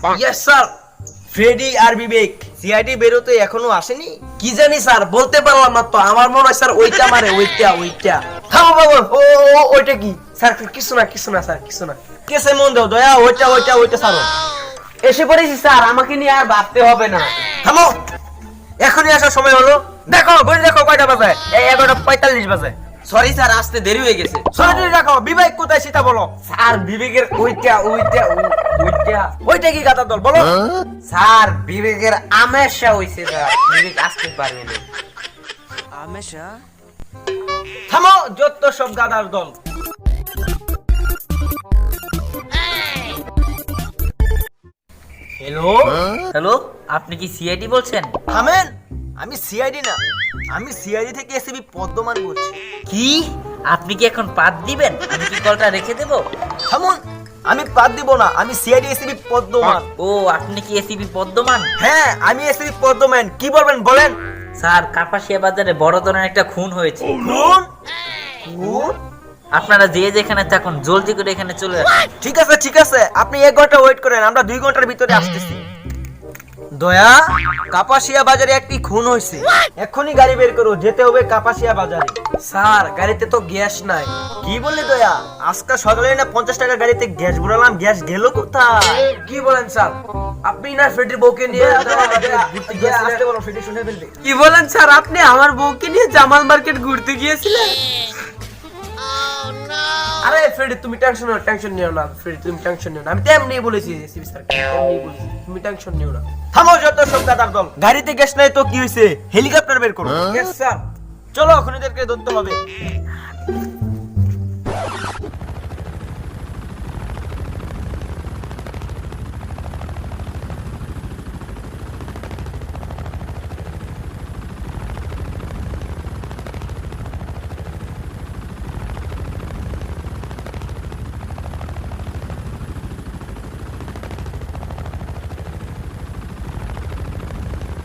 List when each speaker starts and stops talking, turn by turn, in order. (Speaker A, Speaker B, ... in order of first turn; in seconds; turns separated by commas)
Speaker A: 0.1-0.7, Speaker B: 1.3-4.2, Speaker A: 4.4-8.2, Speaker B: 8.5-9.1, Speaker A: 9.1-12.0, Speaker B: 12.3-14.3, Speaker A: 15.0-17.3, Speaker B: 17.6-17.9, Speaker B: 18.8-22.7, Speaker A: 23.1-24.4, Speaker B: 24.5-26.3, Speaker A: 26.5-29.3, Speaker B: 29.3-30.6, Speaker A: 31.1-34.8, Speaker B: 37.9-39.5, Speaker C: 46.3-48.1, Speaker B: 48.3-50.0, Speaker B: 50.5-52.5, Speaker C: 52.9-56.2, Speaker B: 56.7-59.9, Speaker C: 60.0-61.7, Speaker B: 61.8-64.2, Speaker C: 64.6-67.1, Speaker B: 67.2-67.7, Speaker B: 68.6-68.9, Speaker A: 68.6-68.9, Speaker C: 69.5-71.9, Speaker B: 72.2-75.6, Speaker B: 76.8-77.2, Speaker B: 77.7-82.2, Speaker A: 82.4-84.1, Speaker B: 84.4-89.0, Speaker A: 89.2-93.2, Speaker B: 91.5-94.1, Speaker A: 94.2-97.7, Speaker A: 100.2-106.2, Speaker B: 106.5-110.3, Speaker A: 110.3-110.8, Speaker B: 111.3-112.6